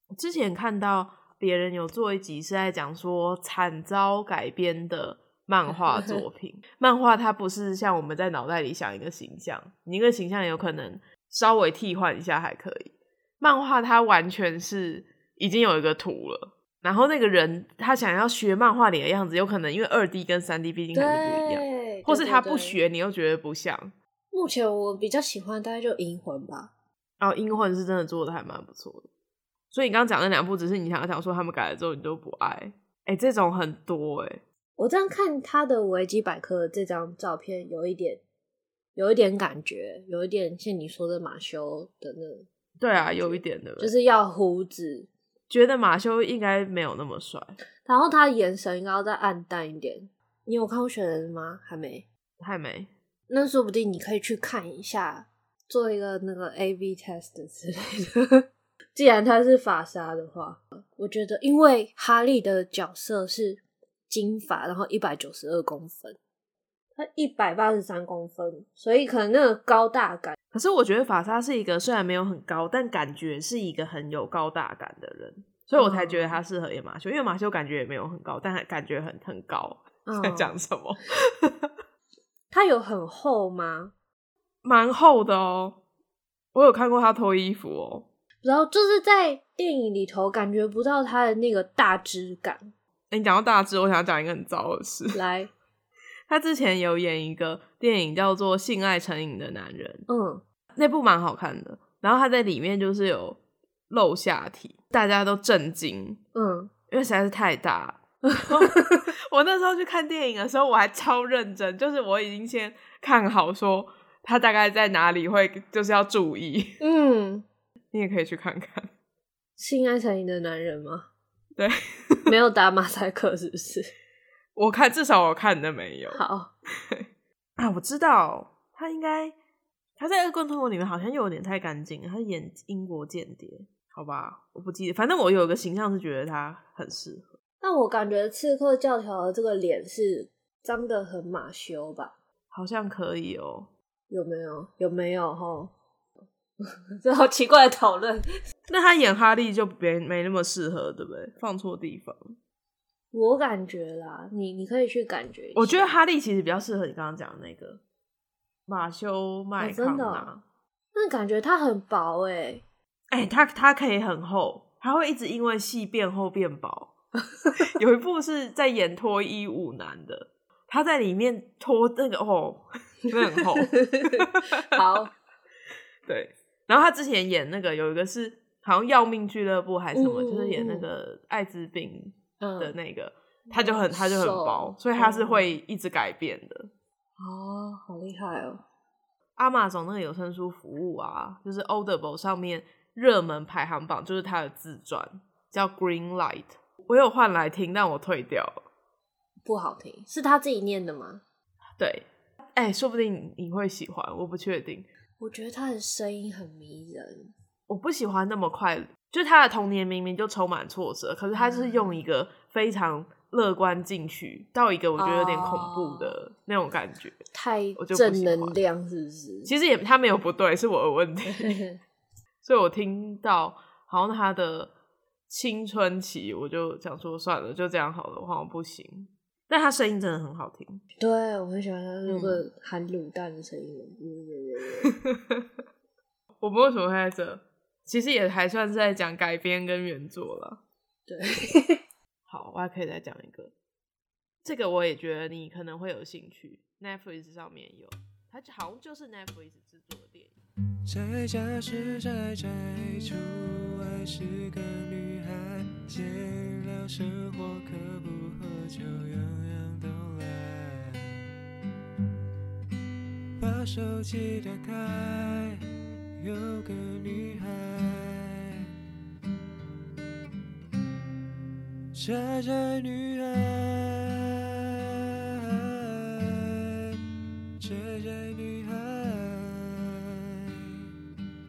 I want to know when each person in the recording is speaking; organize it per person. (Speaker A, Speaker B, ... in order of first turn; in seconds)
Speaker A: 0.1-23.9, 27.2-29.1, 29.7-34.4, 42.8-43.9, 45.5-47.6, 52.4-52.9, 70.5-81.7, 84.6-85.8, 86.5-88.1, 93.1-95.2, 96.3-100.1, 100.8-103.4, 103.9-106.2, 106.9-116.8, 117.9-118.9, 121.6-122.3, 124.6-126.2, 127.6-129.4, 130.0-137.3, 142.5-143.7, 148.7-152.3, 155.6-157.8, 158.7-160.4, 163.1-166.9, 167.6-174.4, 176.1-186.7, 189.4-198.6, 201.8-204.9, 207.7-217.2, 217.8-218.6, 219.5-221.6, 222.4-224.7, 225.3-230.8, 232.1-232.4, 235.0-235.5, 236.4-240.6, 242.3-243.5, 244.4-250.3
Speaker B: 5.9-6.2, 20.9-22.8, 24.3-26.7, 34.8-38.2, 39.0-45.1, 47.8-52.1, 53.3-66.2, 67.0-70.4, 75.8-76.4, 80.1-80.5, 82.5-83.9, 88.4-92.7, 95.1-95.5, 100.1-100.4, 106.3-106.7, 108.4-109.0, 116.8-117.5, 119.6-121.1, 122.3-123.9, 126.1-126.5, 137.6-142.1, 144.1-145.7, 146.6-148.3, 153.1-156.0, 159.6-160.3, 160.9-162.6, 173.4-175.1, 179.9-180.9, 182.4-182.8, 183.5-185.6, 187.2-188.6, 199.4-201.2, 205.2-207.3, 211.3-212.0, 215.0-216.2, 217.3-219.5, 221.3-221.8, 231.0-234.9, 241.1-241.8
Speaker C: 250.9-261.2, 263.4-268.7, 271.9-277.0, 277.6-280.9